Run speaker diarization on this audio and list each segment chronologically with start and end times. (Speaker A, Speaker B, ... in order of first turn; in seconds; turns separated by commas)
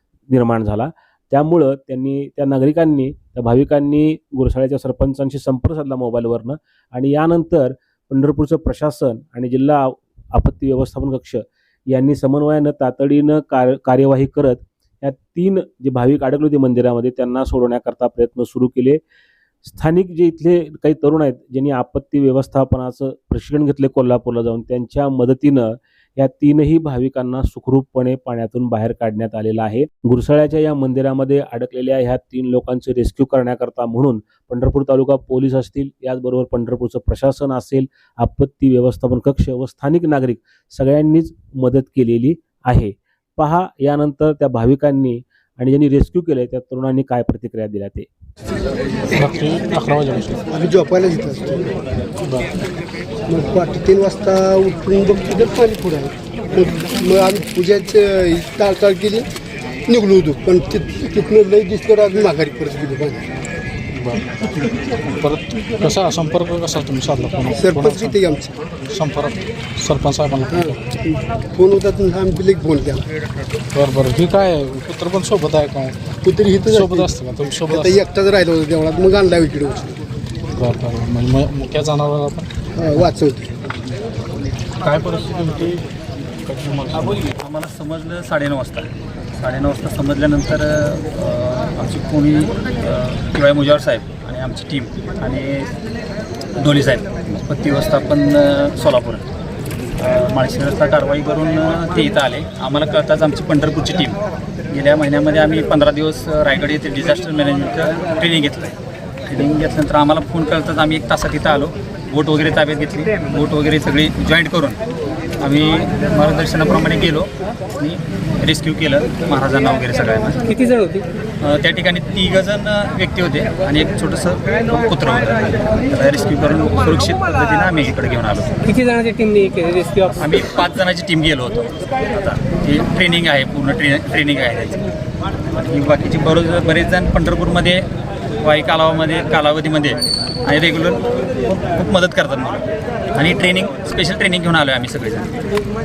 Speaker A: 0.3-19.0, Speaker A: 19.6-48.1, Speaker B: 49.1-50.4, Speaker C: 50.5-51.7, Speaker B: 52.2-52.5, Speaker C: 53.3-59.3, Speaker C: 59.9-63.2, Speaker B: 64.0-64.3, Speaker B: 64.9-68.1, Speaker C: 67.6-68.5, Speaker B: 68.8-70.8, Speaker C: 70.5-73.0, Speaker B: 73.7-76.1, Speaker C: 76.2-77.2, Speaker B: 76.6-77.9, Speaker C: 77.7-79.9, Speaker B: 80.5-82.5, Speaker C: 82.8-83.5, Speaker B: 84.8-85.8, Speaker B: 86.5-87.2, Speaker D: 87.3-95.7, Speaker D: 96.6-99.2, Speaker D: 100.0-104.2, Speaker D: 104.7-114.8, Speaker D: 115.4-120.5, Speaker E: 120.5-121.0, Speaker D: 121.4-128.7, Speaker E: 128.7-130.1, Speaker D: 130.1-134.8, Speaker D: 135.6-137.8, Speaker D: 138.4-145.3